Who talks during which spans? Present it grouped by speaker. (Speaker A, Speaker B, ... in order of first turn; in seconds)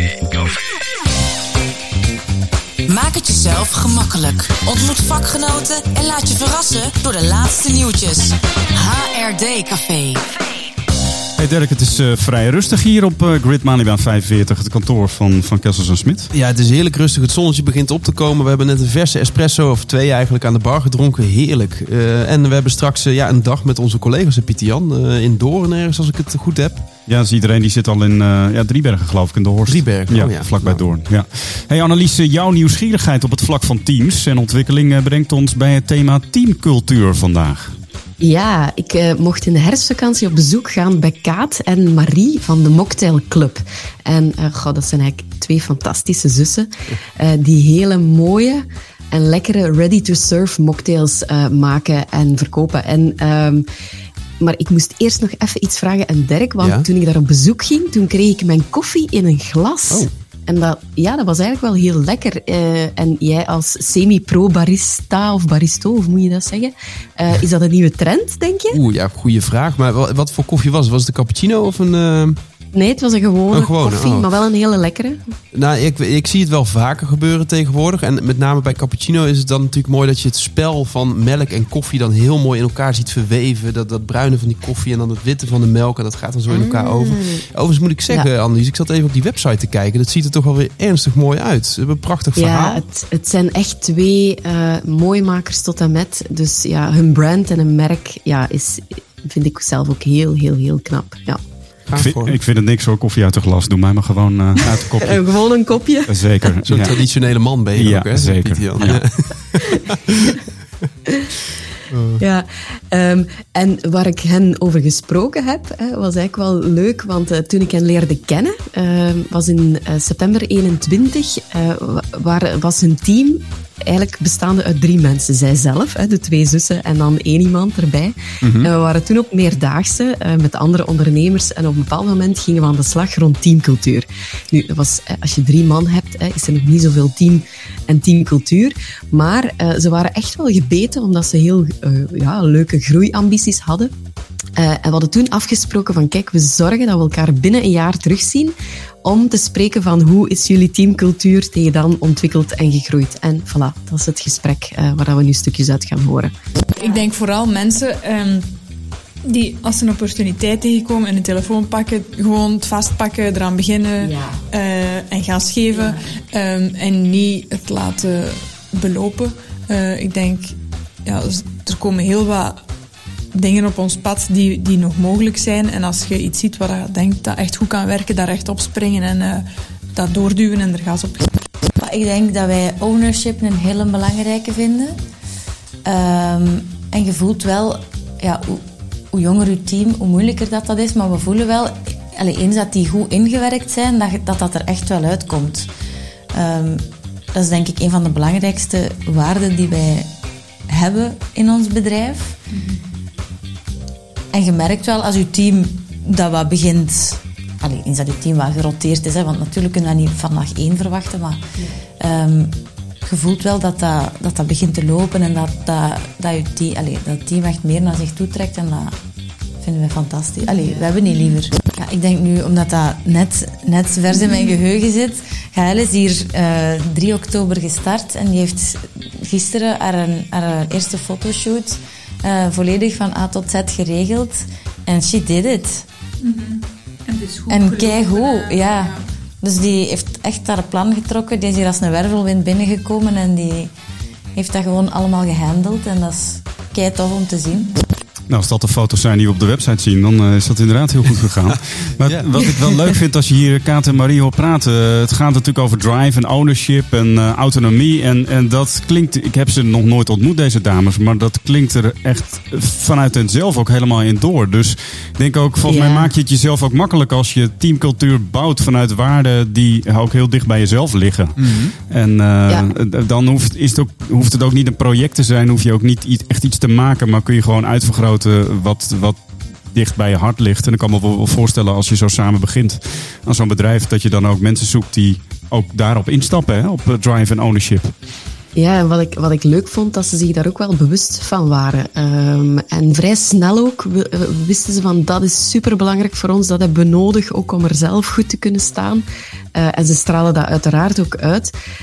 Speaker A: 2.9-10.2
Speaker B: 11.4-16.3, 27.1-37.8, 102.0-105.2, 106.1-106.9, 107.7-109.0, 248.3-279.2, 279.7-287.9
Speaker C: 16.3-26.9, 29.7-30.9, 56.6-56.9, 68.7-72.4, 73.5-74.3, 75.5-92.8, 101.9-102.4, 106.6-110.1, 111.9-112.2, 128.4-128.7, 252.0-252.9, 271.4-271.8
Speaker D: 38.2-53.6, 54.4-68.8, 72.7-75.3, 86.5-87.4, 92.4-101.4, 104.6-106.2, 112.2-143.9, 144.6-156.3, 265.6-266.1, 288.6-299.0, 299.6-301.5
Speaker E: 156.8-158.5, 159.3-172.6, 173.3-181.3, 236.2-239.0
Speaker F: 181.8-185.0, 185.8-195.7, 196.3-200.1, 200.7-202.4, 204.3-211.4, 212.0-218.9, 219.6-235.9, 237.5-243.7, 244.3-247.7